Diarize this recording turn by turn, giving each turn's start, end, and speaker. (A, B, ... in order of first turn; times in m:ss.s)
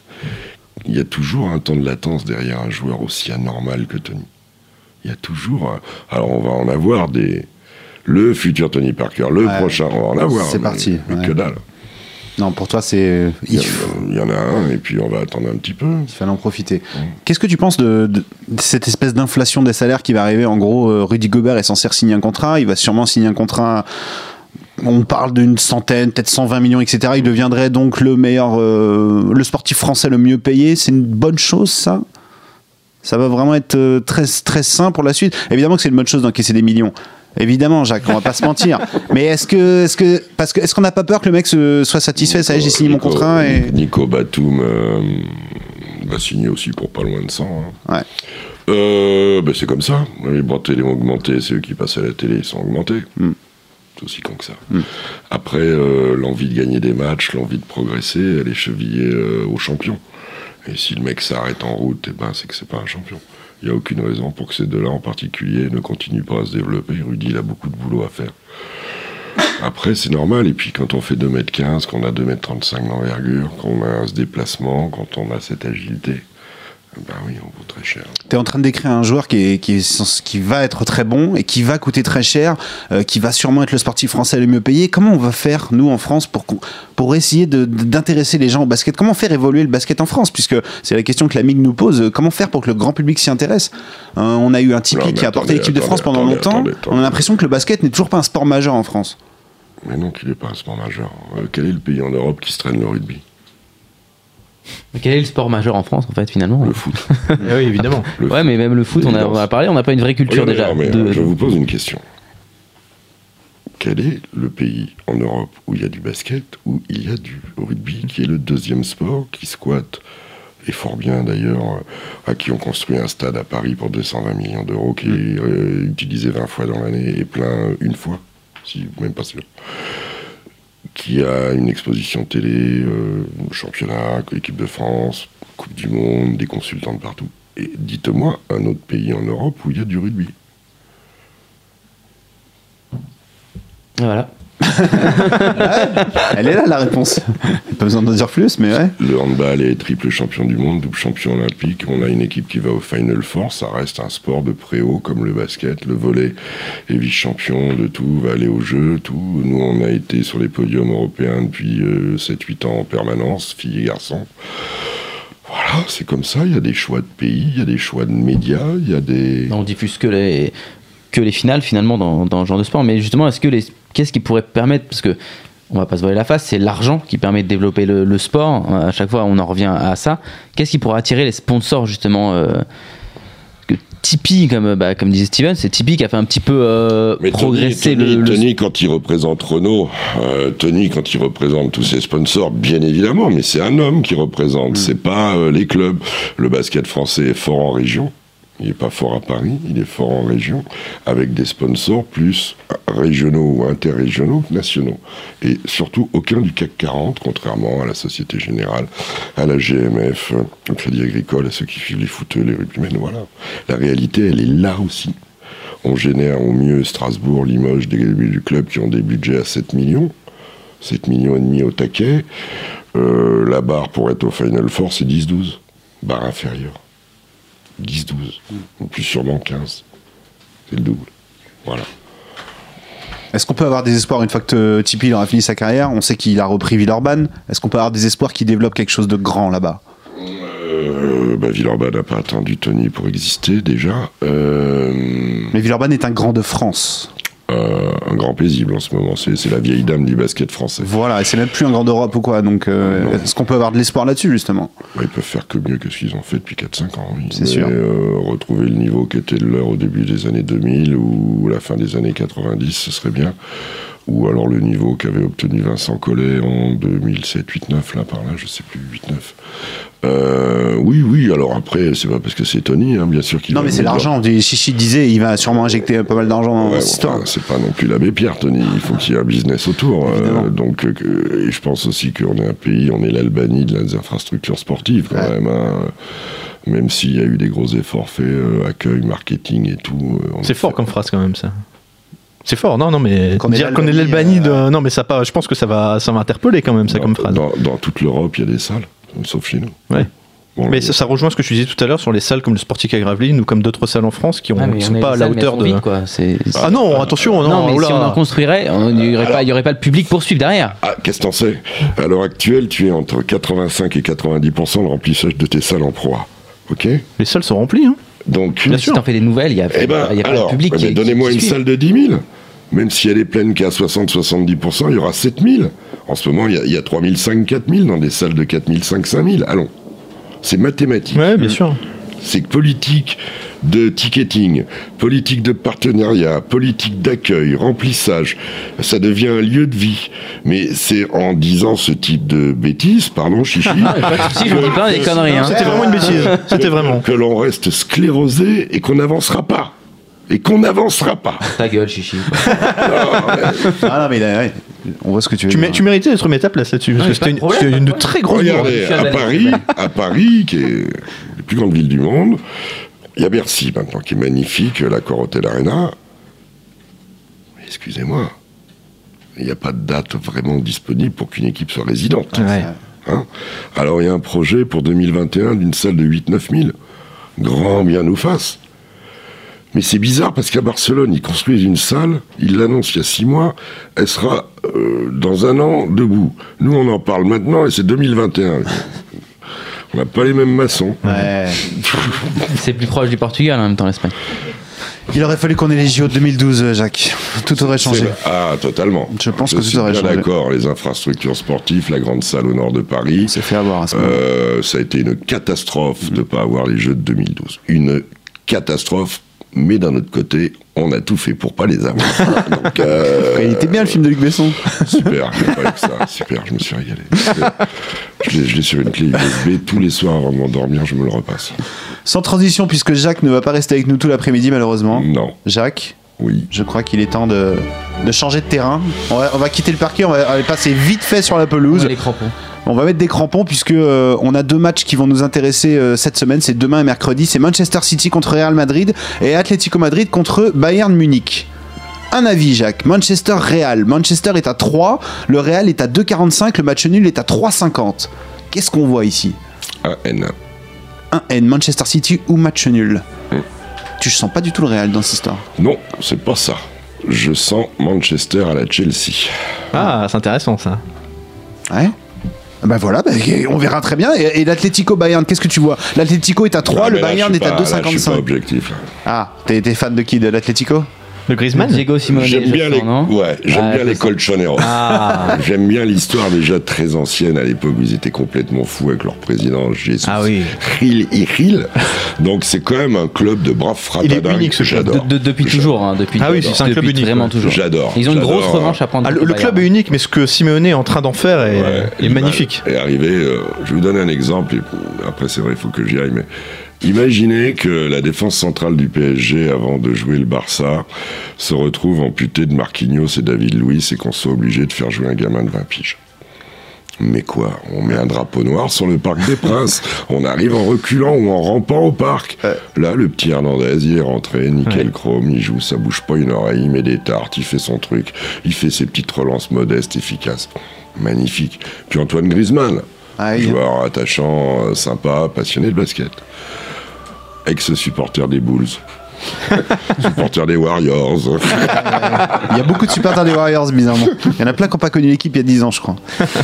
0:00.8-0:04.3 A
0:05.0-0:07.5 A
0:08.0-0:11.6 A
0:09.4-0:09.8 B
0:10.3-0:11.3 B
0:12.4-0:14.0 B
0:13.5-0:16.1 A
0:16.1-0:23.9 B
0:24.8-0:32.0 B
0:33.0-0:43.7 B
0:42.2-0:47.8 A
0:48.7-0:53.1 A
0:54.0-1:00.0 A
1:00.6-1:08.3 A
1:09.6-1:16.2 A
1:16.9-1:18.2 A
1:18.3-1:39.2 B
1:34.9-1:37.3 A
1:39.8-1:43.2 A
1:44.9-1:47.4 C
1:46.6-1:47.0 A
1:47.4-1:48.1 D
1:48.2-1:49.4 A
1:48.3-1:51.3 C
1:50.3-1:52.0 A
1:53.8-2:00.0 A
2:00.6-2:09.5 A
2:10.9-2:20.3 A
2:24.0-2:24.3 C
2:24.6-2:28.9 B
2:24.8-2:25.7 C
2:29.0-2:36.4 A
2:36.9-2:44.3 A
2:45.4-2:49.5 A
2:49.5-2:50.5 C
2:51.1-2:55.2 C
2:55.7-3:02.6 C
3:03.7-3:08.4 C
3:07.2-3:35.2 A
3:35.8-3:40.1 A
3:40.8-3:42.2 A
3:42.9-3:46.7 A
3:47.8-3:49.8 A
3:50.7-3:51.1 A
3:53.3-3:59.8 B
4:00.2-4:05.5 A
4:05.5-4:07.1 B
4:07.5-4:10.9 A
4:10.8-4:14.7 B
4:12.9-4:13.2 A
4:14.9-4:23.3 A
4:17.3-4:17.7 B
4:24.1-4:29.4 A
4:30.0-4:34.1 A
4:33.5-4:37.3 B
4:36.6-4:45.9 A
4:40.0-4:40.5 B
4:46.6-4:50.8 A
4:50.4-4:51.6 D
4:52.4-4:57.4 D
4:53.4-4:54.6 B
4:56.9-4:59.8 A
5:00.6-5:01.0 A
5:00.7-5:05.8 D
5:04.6-5:06.7 C
5:06.6-5:07.7 A
5:06.6-5:08.2 D
5:07.4-5:10.8 C
5:09.0-5:09.4 A
5:10.8-5:17.0 A
5:17.2-5:18.0 D
5:18.3-5:19.0 A
5:18.7-5:19.0 D
5:18.7-5:21.6 C
5:19.7-5:29.7 A
5:30.4-5:31.6 A
5:31.1-5:31.8 D
5:32.2-5:49.7 A
5:44.0-5:45.6 C
5:44.1-5:47.0 D
5:45.5-5:46.1 B
5:50.3-5:51.5 A
5:51.5-5:52.6 C
5:52.6-5:53.9 A
5:53.7-5:55.8 B
5:55.5-5:59.1 D
5:57.0-5:59.6 C
5:58.3-6:02.4 A
6:03.2-6:05.9 A
6:07.6-6:08.3 A
6:09.4-6:16.7 A
6:12.4-6:12.7 D
6:12.4-6:12.8 B
6:17.4-6:18.6 A
6:19.7-6:29.0 A
6:29.9-6:31.0 A
6:31.0-6:31.6 B
6:31.6-6:32.5 A
6:32.5-6:34.2 C
6:35.1-6:38.2 B
6:37.6-6:43.4 A
6:39.1-6:40.3 B
6:43.2-6:44.2 B
6:43.9-6:54.0 A
6:53.2-6:55.1 B
6:54.7-7:01.6 A
7:02.0-7:06.0 B
7:04.9-7:05.4 A
7:06.2-7:06.5 A
7:06.5-7:12.0 B
7:11.7-7:12.3 C
7:12.6-7:21.5 B
7:22.1-7:29.4 B
7:29.8-7:30.3 A
7:31.1-7:33.0 B
7:34.0-7:35.4 B
7:35.6-7:39.6 A
7:39.7-7:40.8 D
7:41.7-7:41.9 B
7:42.6-7:48.2 B
7:46.7-7:48.8 A
7:49.0-7:50.9 B
7:51.3-7:51.8 D
7:51.5-7:54.1 C
7:52.1-8:06.6 A
7:54.6-7:55.4 D
8:00.0-8:00.5 D
8:04.0-8:05.0 D
8:04.9-8:09.6 C
8:06.2-8:07.3 D
8:07.4-8:08.8 A
8:09.0-8:12.6 D
8:11.4-8:16.3 A
8:16.8-8:20.8 A
8:21.4-8:26.0 A
8:27.0-8:42.8 A
8:43.2-8:43.6 B
8:43.4-8:46.2 A
8:47.4-8:48.8 A
8:49.4-8:52.5 A
8:52.2-8:56.0 B